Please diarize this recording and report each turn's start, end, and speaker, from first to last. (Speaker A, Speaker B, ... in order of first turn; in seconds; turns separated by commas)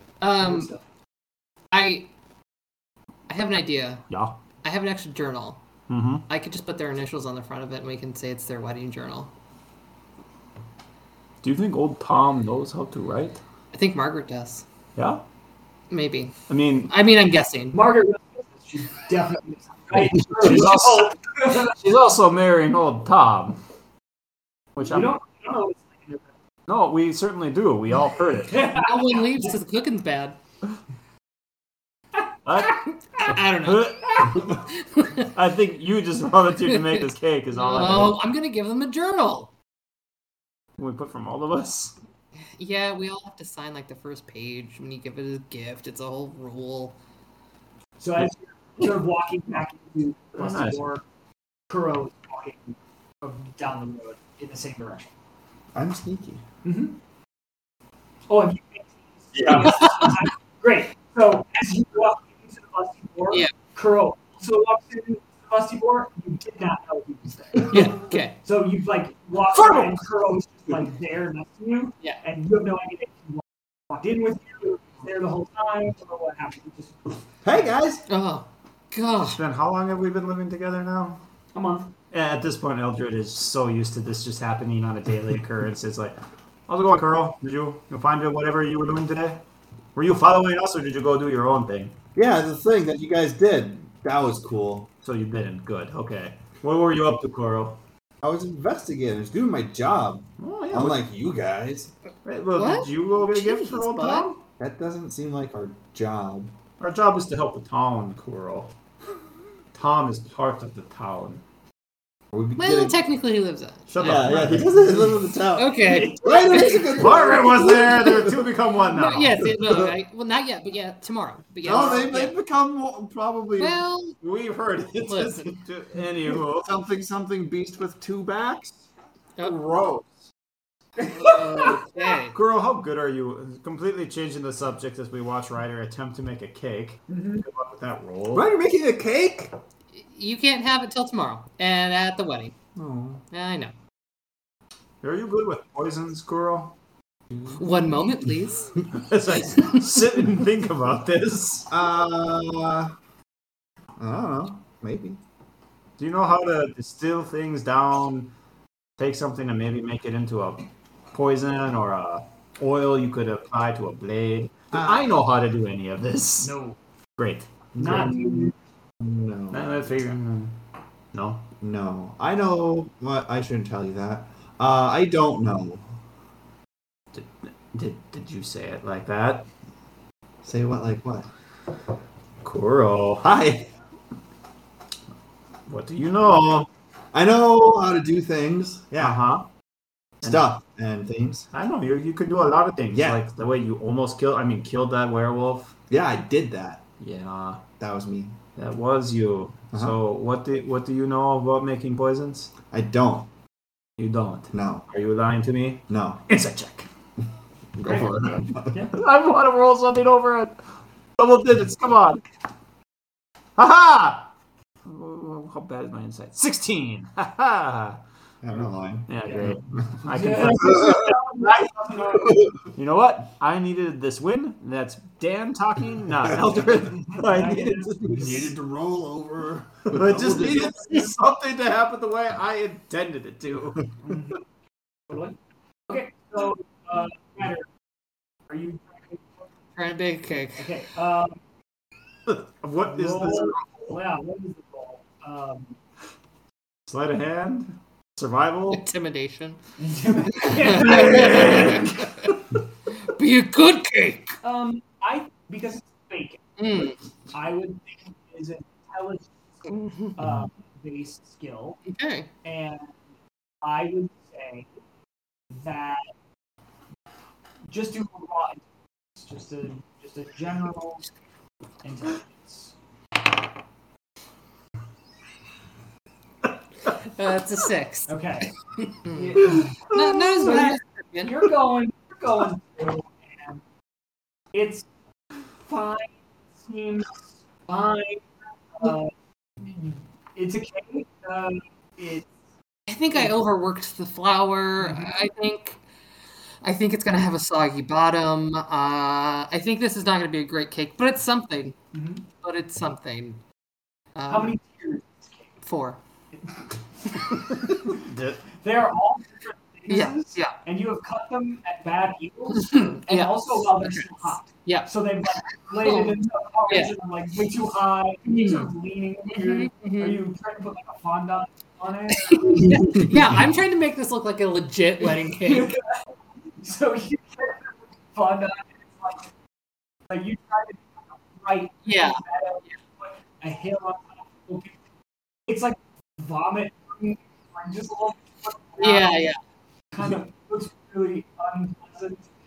Speaker A: 0.2-0.7, Speaker B: 0.4-0.8, Speaker A: 1.7-2.1, Speaker A: 3.3-4.0, Speaker C: 4.1-4.4, Speaker A: 4.6-5.6, Speaker C: 5.9-6.2, Speaker A: 6.3-9.3, Speaker C: 11.4-13.4, Speaker A: 13.7-14.6, Speaker C: 14.9-15.2, Speaker A: 15.9-17.8, Speaker C: 16.5-16.9, Speaker B: 17.7-21.7, Speaker C: 20.0-23.6, Speaker C: 24.7-25.2, Speaker B: 24.8-26.3, Speaker C: 26.7-28.7, Speaker B: 28.5-29.5, Speaker A: 28.7-30.4, Speaker C: 32.4-34.6, Speaker A: 33.1-35.3, Speaker C: 35.2-38.2, Speaker A: 36.7-39.5, Speaker C: 40.8-41.9, Speaker A: 42.4-47.0, Speaker B: 48.0-51.0, Speaker C: 50.4-50.8, Speaker B: 51.7-55.1, Speaker D: 55.7-56.4, Speaker B: 56.6-57.0, Speaker B: 58.3-77.2, Speaker C: 59.3-60.1, Speaker A: 67.7-68.3, Speaker C: 69.5-69.9, Speaker D: 77.4-78.0, Speaker A: 78.1-79.4, Speaker C: 79.2-81.2, Speaker B: 81.5-81.9, Speaker C: 82.1-86.2, Speaker C: 86.7-89.4, Speaker C: 90.0-91.9, Speaker D: 92.1-94.9, Speaker C: 95.0-97.8, Speaker D: 98.2-101.9, Speaker C: 100.4-101.0, Speaker C: 102.2-104.4, Speaker A: 102.5-104.3, Speaker D: 104.6-106.5, Speaker C: 106.8-108.7, Speaker C: 109.7-111.4, Speaker D: 112.3-113.0, Speaker A: 112.6-114.6, Speaker C: 113.9-115.0, Speaker D: 114.0-118.5, Speaker B: 114.8-115.1, Speaker A: 115.5-118.2, Speaker B: 115.8-116.8, Speaker C: 116.9-119.6, Speaker A: 118.8-122.3, Speaker D: 119.5-119.9, Speaker D: 121.6-123.8, Speaker A: 123.6-124.2, Speaker C: 124.2-126.7, Speaker A: 125.0-125.6, Speaker D: 126.2-128.8, Speaker D: 129.4-130.1, Speaker B: 131.0-131.8, Speaker A: 131.2-132.3, Speaker C: 132.3-138.5, Speaker B: 137.1-137.4, Speaker D: 138.3-139.5, Speaker A: 139.9-142.5, Speaker D: 142.7-143.2, Speaker A: 143.3-143.7, Speaker C: 145.0-146.7, Speaker D: 147.3-147.6, Speaker A: 147.5-148.8, Speaker C: 148.9-151.7, Speaker D: 151.7-152.9, Speaker D: 154.0-155.2, Speaker C: 156.0-158.3, Speaker C: 159.0-166.5, Speaker D: 164.7-165.1, Speaker B: 166.4-166.8, Speaker C: 167.2-168.4, Speaker D: 167.8-168.2, Speaker B: 167.8-168.5, Speaker D: 169.0-169.7, Speaker C: 169.5-170.5, Speaker C: 171.1-171.5, Speaker D: 171.6-175.8, Speaker C: 177.1-179.5, Speaker D: 180.4-181.3, Speaker C: 182.4-183.3, Speaker D: 183.2-183.7, Speaker C: 185.7-186.7, Speaker D: 187.1-189.2, Speaker C: 189.0-189.4, Speaker D: 190.2-191.5, Speaker C: 191.5-195.7, Speaker D: 192.9-193.2, Speaker D: 195.9-196.8, Speaker C: 197.0-197.6, Speaker D: 197.8-198.4, Speaker C: 198.6-202.5, Speaker D: 202.7-203.3, Speaker C: 204.0-206.9, Speaker D: 204.5-204.8, Speaker D: 205.9-206.2, Speaker D: 207.8-208.8, Speaker C: 208.8-210.6, Speaker C: 211.2-212.2, Speaker C: 213.6-214.3, Speaker C: 214.8-218.0, Speaker D: 218.4-219.5, Speaker C: 219.1-221.2, Speaker B: 219.2-222.5, Speaker D: 220.7-221.1, Speaker D: 222.1-222.5, Speaker C: 222.7-228.5, Speaker B: 226.9-227.9, Speaker D: 228.0-231.1, Speaker C: 229.9-234.2, Speaker B: 234.0-234.4, Speaker B: 235.1-235.3, Speaker B: 235.9-237.7, Speaker B: 238.5-239.3, Speaker A: 239.8-240.7, Speaker B: 240.6-241.4, Speaker C: 242.3-243.6, Speaker B: 242.8-245.8, Speaker C: 246.9-248.8, Speaker A: 248.7-249.6, Speaker B: 249.8-251.8, Speaker A: 250.3-252.4, Speaker C: 250.6-252.1, Speaker A: 253.0-254.3, Speaker B: 254.4-256.4, Speaker A: 256.6-257.0, Speaker B: 257.3-261.8, Speaker A: 261.9-262.3, Speaker B: 262.4-263.0, Speaker B: 263.6-264.7, Speaker B: 265.5-266.1, Speaker B: 267.6-268.6, Speaker B: 269.1-271.1, Speaker B: 271.8-272.7, Speaker A: 276.9-278.1, Speaker B: 278.1-278.5, Speaker A: 278.8-281.5, Speaker B: 279.1-283.6, Speaker C: 279.9-280.4, Speaker B: 284.5-284.9, Speaker B: 285.6-292.3, Speaker A: 292.9-295.8, Speaker B: 294.8-295.1, Speaker A: 296.6-301.8, Speaker B: 301.9-302.2, Speaker A: 302.3-303.4, Speaker A: 304.1-304.5, Speaker B: 304.3-305.5, Speaker A: 305.6-306.0, Speaker B: 306.3-306.6, Speaker C: 307.9-308.4, Speaker B: 308.5-323.1, Speaker A: 309.9-310.6, Speaker A: 312.6-314.9, Speaker A: 315.8-316.9, Speaker A: 319.3-320.2, Speaker A: 322.3-325.8, Speaker B: 325.0-329.3, Speaker B: 330.1-334.8, Speaker A: 331.9-332.2, Speaker B: 335.5-339.2, Speaker A: 338.8-339.4, Speaker B: 339.9-342.3